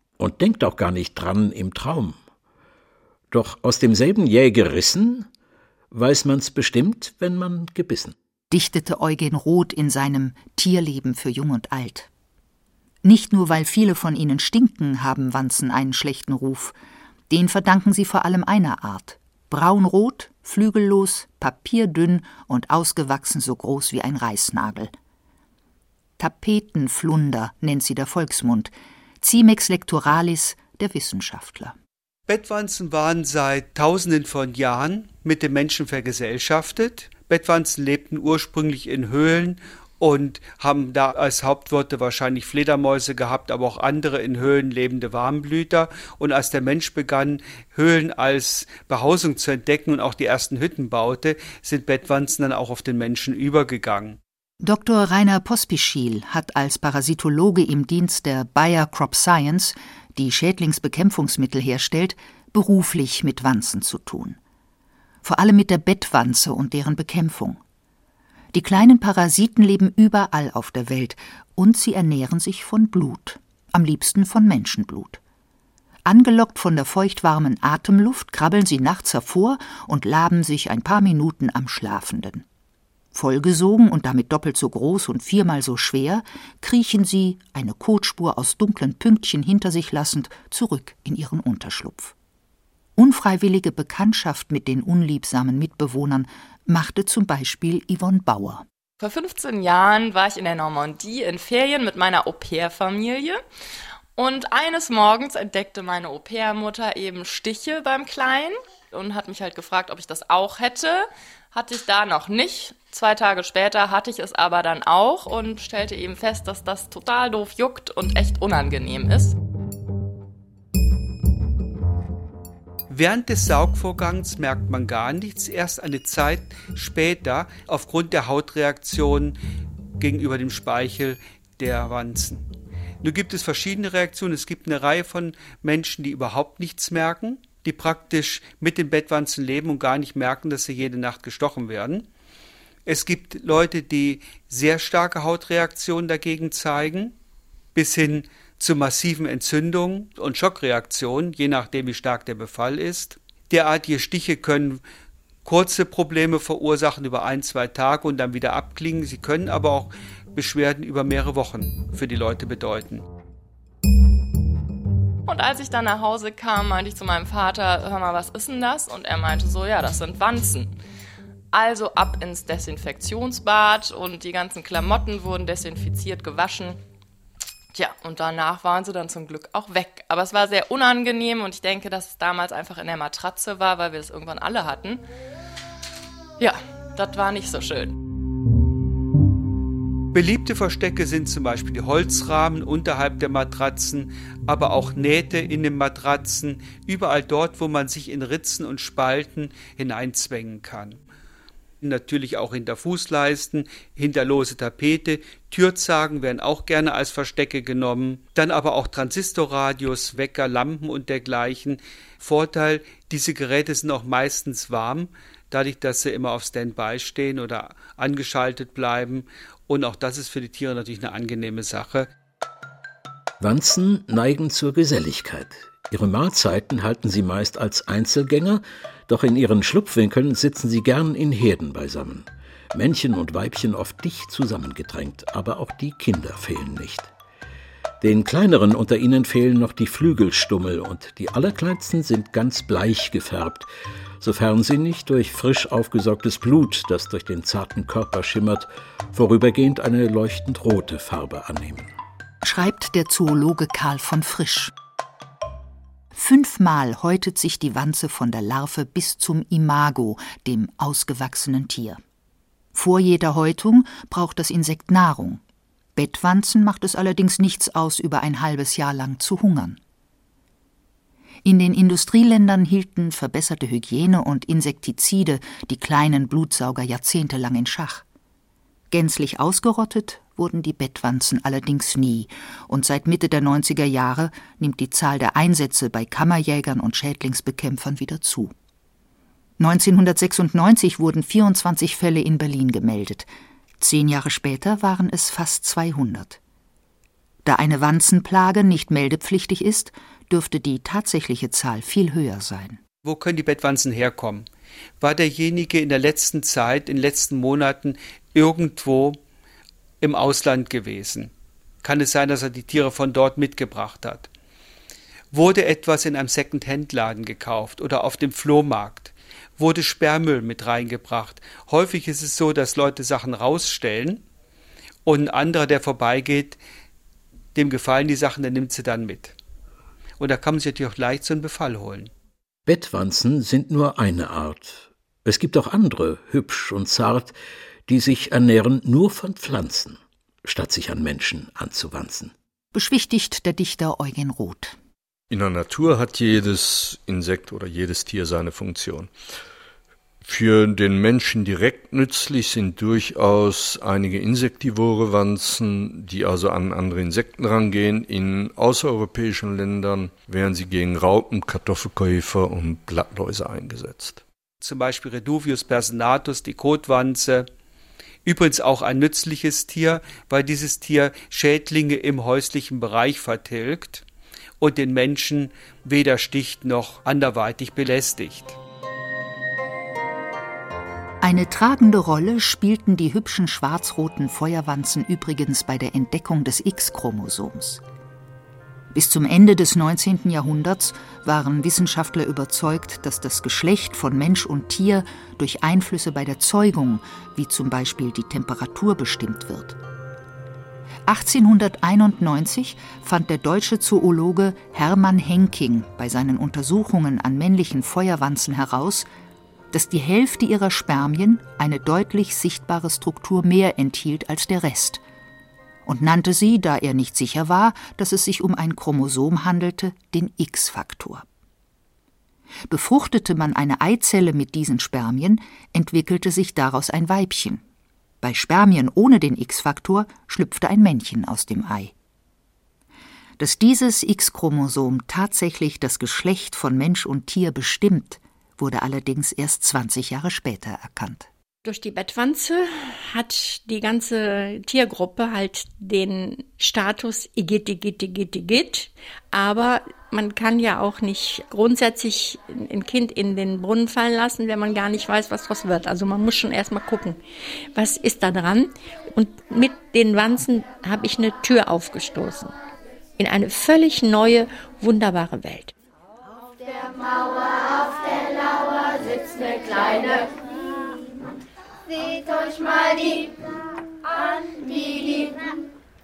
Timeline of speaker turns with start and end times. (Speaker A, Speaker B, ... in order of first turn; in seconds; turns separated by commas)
Speaker A: 0.2-2.2, Speaker A: 3.3-5.3, Speaker A: 5.9-8.2, Speaker B: 8.5-12.1, Speaker B: 13.0-16.7, Speaker B: 17.3-24.9, Speaker B: 26.2-31.8, Speaker C: 32.3-54.2, Speaker B: 54.6-64.4, Speaker B: 65.2-67.6, Speaker B: 68.5-75.2, Speaker B: 76.0-82.4, Speaker B: 83.1-92.1, Speaker B: 93.0-98.7, Speaker D: 99.0-103.4, Speaker D: 104.2-119.4, Speaker C: 122.9-129.4, Speaker C: 130.0-132.4, Speaker C: 133.0-142.1, Speaker C: 142.8-147.1, Speaker C: 147.7-154.8, Speaker C: 155.4-163.0, Speaker D: 165.2-170.7, Speaker D: 171.5-176.8, Speaker D: 177.7-185.0, Speaker D: 186.4-188.0, Speaker C: 190.1-201.0, Speaker C: 201.8-222.1, Speaker A: 223.4-237.1, Speaker A: 238.0-243.7, Speaker A: 244.2-251.9, Speaker B: 252.4-254.7, Speaker B: 256.1-262.0, Speaker B: 262.7-265.4, Speaker B: 265.9-269.8, Speaker B: 271.4-278.0, Speaker B: 278.9-288.5, Speaker B: 289.6-296.4, Speaker B: 297.4-302.8, Speaker C: 303.0-304.5, Speaker C: 305.0-309.2, Speaker C: 310.0-311.3, Speaker C: 311.8-314.3, Speaker C: 315.3-324.2, Speaker C: 325.0-326.6, Speaker C: 327.5-329.4, Speaker C: 330.2-332.1, Speaker A: 332.6-337.3, Speaker A: 337.9-342.3, Speaker B: 342.7-344.8, Speaker E: 345.3-349.1, Speaker E: 350.2-364.2, Speaker C: 364.6-367.5, Speaker C: 368.2-374.0, Speaker C: 374.6-378.6, Speaker B: 381.2-387.8, Speaker B: 388.9-399.8, Speaker B: 401.1-409.1, Speaker B: 409.7-415.0, Speaker B: 415.9-421.2, Speaker B: 422.7-427.6, Speaker B: 428.2-431.9, Speaker B: 433.4-441.3, Speaker F: 441.6-457.2, Speaker F: 457.7-462.5, Speaker F: 463.2-465.7, Speaker G: 466.6-470.3, Speaker G: 471.9-473.4, Speaker G: 474.1-475.5